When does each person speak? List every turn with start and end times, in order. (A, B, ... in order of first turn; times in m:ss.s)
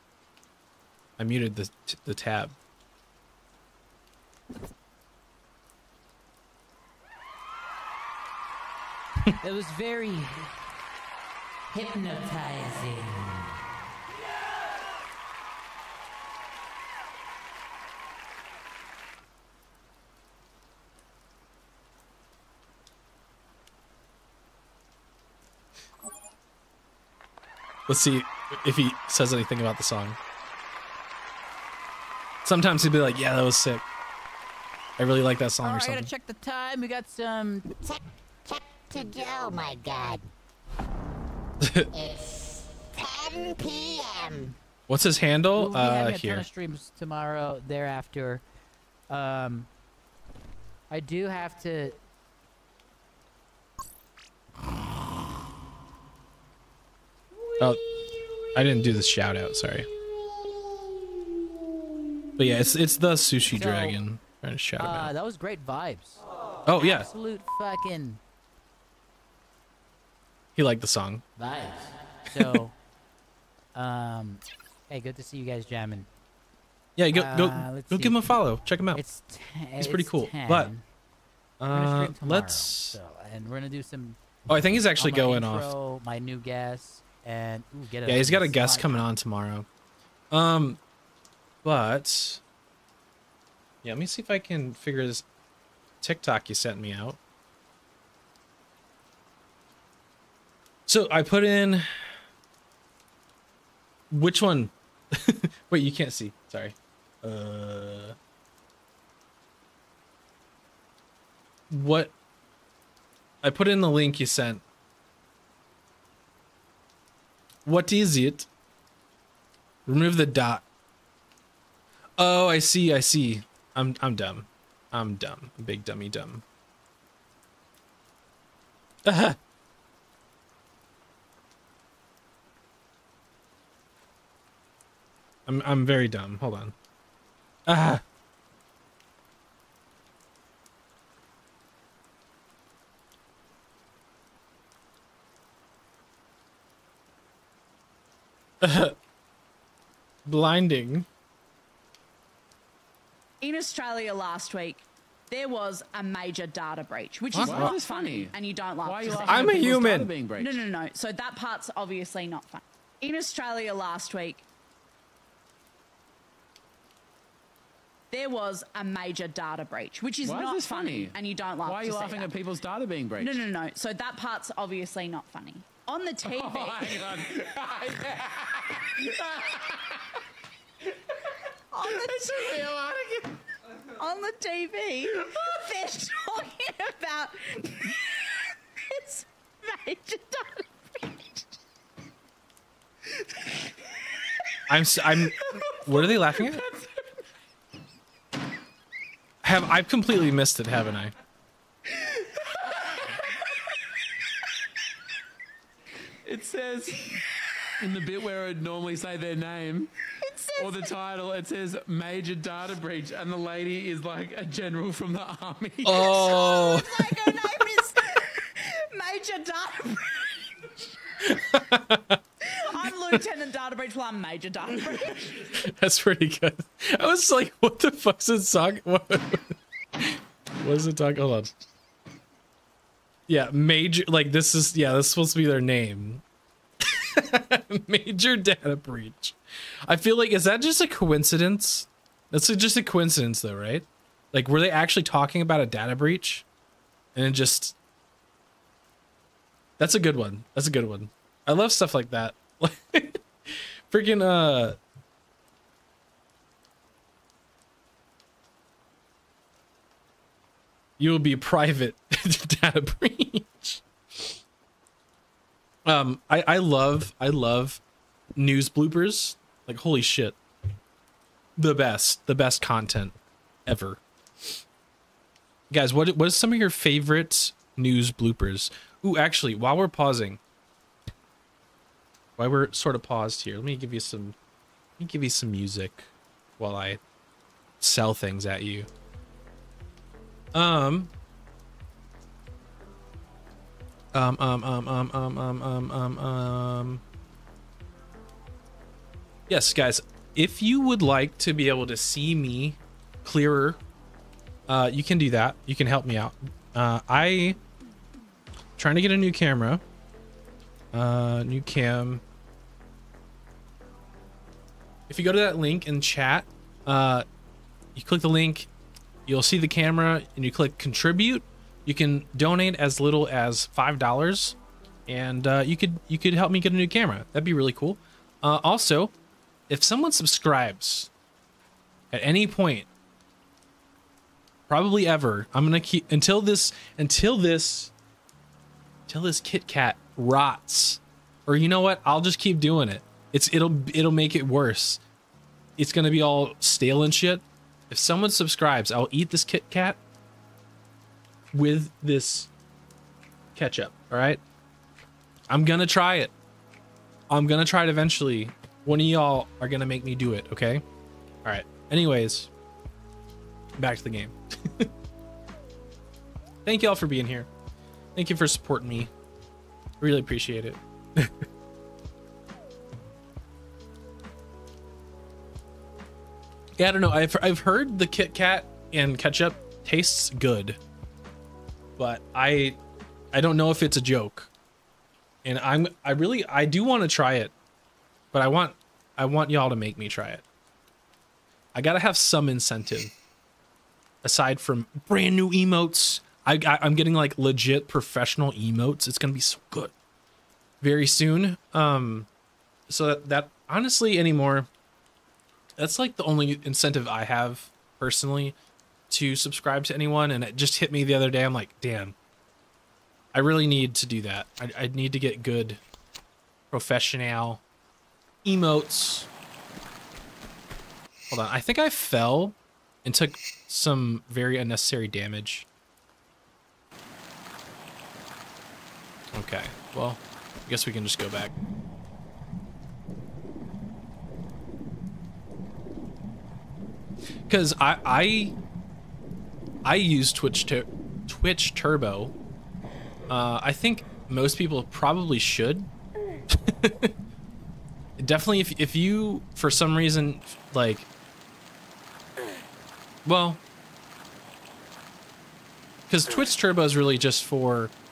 0:01.2-0:02.5 A
0:09.4-0:10.5 B
0:11.7-0:13.6 B
0:27.9-0:30.2 A
0:32.4-0:33.9 A
0:35.0-0:36.1 A
0:35.6-0:37.7 B
0:37.8-0:40.2 C
0:41.6-0:41.9 A
0:41.9-0:44.5 C
0:44.9-0:46.4 A
0:45.5-0:48.4 B
0:49.1-0:49.7 B
0:50.9-0:52.0 B
0:58.5-0:59.9 A
1:02.4-1:05.1 A
1:03.5-1:04.0 B
1:04.8-1:06.2 B
1:06.6-1:07.1 A
1:06.8-1:08.2 B
1:10.6-1:11.2 A
1:11.4-1:12.7 B
1:13.7-1:16.1 B
1:17.0-1:19.0 A
1:17.1-1:18.3 B
1:18.9-1:20.8 B
1:19.8-1:20.7 A
1:21.6-1:23.0 A
1:21.7-1:24.2 B
1:24.5-1:25.7 A
1:25.0-1:29.1 B
1:28.0-1:29.6 A
1:30.3-1:30.8 A
1:31.6-1:32.4 A
1:33.8-1:35.2 A
1:36.0-1:37.2 A
1:40.9-1:42.0 A
1:44.1-1:48.2 A
1:51.7-1:52.1 A
1:53.4-1:54.6 A
1:57.6-1:58.5 A
1:59.8-2:00.6 A
2:02.2-2:06.4 A
2:09.0-2:09.4 A
2:15.5-2:16.7 A
2:17.7-2:18.0 A
2:28.6-2:29.0 A
2:30.2-2:31.1 A
2:33.4-2:39.7 D
2:37.3-2:37.7 A
2:37.4-2:40.6 E
2:39.2-2:40.1 A
2:40.4-2:44.4 D
2:48.1-2:52.3 D
2:50.2-2:53.4 E
2:53.2-2:57.5 D
2:56.2-3:00.0 E
3:01.7-3:02.9 D
3:01.8-3:03.3 E
3:03.9-3:11.4 D
3:14.7-3:16.6 A
3:15.4-3:16.8 D
3:19.4-3:21.1 A
3:26.2-3:27.2 E
3:27.8-3:29.9 E
3:30.2-3:31.0 D
3:30.6-3:36.6 E
3:35.8-3:37.0 A
3:35.9-3:40.5 D
3:41.2-3:42.2 A
3:42.5-3:45.5 D
3:45.5-3:49.6 A
3:50.6-3:51.5 A
3:53.3-3:56.2 A
3:56.8-4:06.4 A
4:07.1-4:07.8 A
4:09.8-4:14.8 A
4:21.0-4:24.4 A
4:25.8-4:27.8 A
4:28.4-4:30.4 A
4:31.6-4:33.1 A
4:33.6-4:34.6 A
4:35.7-4:40.4 A
4:42.4-4:44.4 A
4:45.0-4:47.0 A
4:47.8-4:48.9 A
4:50.5-4:51.1 A
4:54.1-4:57.0 A
4:59.5-5:03.8 A
5:04.7-5:07.6 A
5:08.8-5:09.8 A
5:10.9-5:12.2 A
5:15.1-5:17.2 A
5:17.9-5:18.7 A
5:19.3-5:24.6 A
5:25.1-5:29.1 A
5:29.7-5:31.1 A
5:32.1-5:32.9 A
5:34.7-5:37.9 A
5:39.1-5:45.0 A
5:45.8-5:50.0 A
5:51.5-5:52.5 A
5:53.6-5:54.4 A
5:55.5-5:56.3 A
5:57.3-6:00.8 A
6:01.4-6:02.5 A
6:03.8-6:04.9 A
6:06.6-6:07.5 A
6:08.1-6:09.1 A
6:10.0-6:11.4 A
6:16.8-6:20.8 A
6:22.0-6:22.8 A
6:23.3-6:24.5 A
6:25.4-6:27.5 A
6:28.3-6:30.4 A
6:31.7-6:33.1 A
6:34.2-6:39.9 A
6:40.8-6:42.3 A
6:42.9-6:44.7 A
6:45.8-6:48.6 A
6:49.1-6:52.1 A
6:53.3-6:55.8 A
6:56.7-6:57.6 A
6:58.4-6:59.3 A
7:01.3-7:05.7 A
7:09.3-7:11.5 A
7:17.5-7:18.5 A
7:19.8-7:22.3 A
7:23.3-7:25.9 A
7:26.5-7:27.1 A
7:28.2-7:31.1 A
7:33.2-7:33.6 A
7:36.1-7:37.9 A